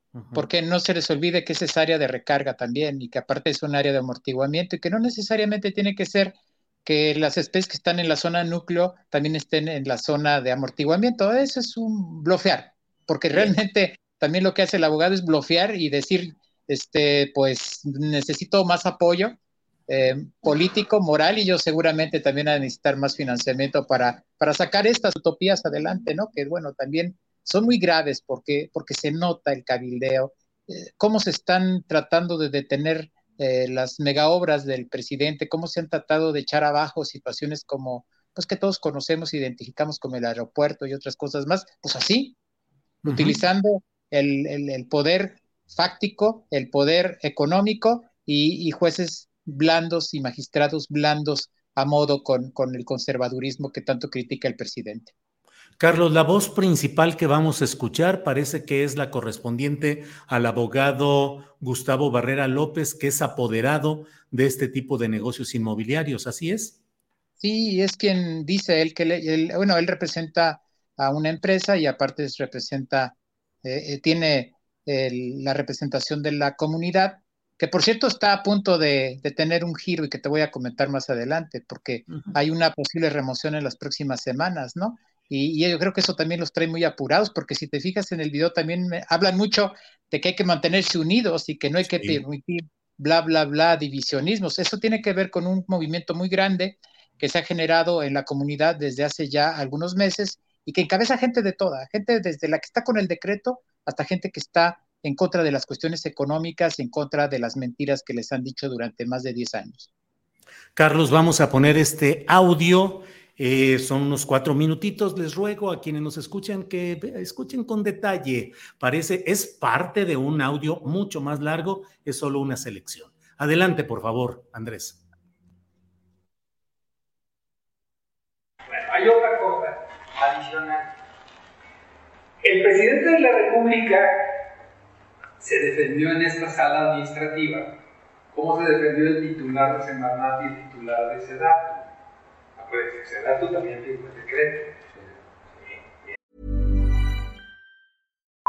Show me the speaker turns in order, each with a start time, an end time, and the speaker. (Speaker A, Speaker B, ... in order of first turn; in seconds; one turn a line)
Speaker A: 0.1-0.5
Speaker B: 0.3-19.4
Speaker B: 19.9-42.4
Speaker A: 43.0-43.4
Speaker B: 43.0-55.1
Speaker A: 55.8-66.8
Speaker B: 67.4-109.9
Speaker A: 91.8-92.2
Speaker A: 110.8-125.0
Speaker C: 128.7-131.0
Speaker C: 132.4-134.4
Speaker C: 135.4-137.7
Speaker C: 138.3-141.8
Speaker C: 142.6-145.0
Speaker C: 145.6-146.1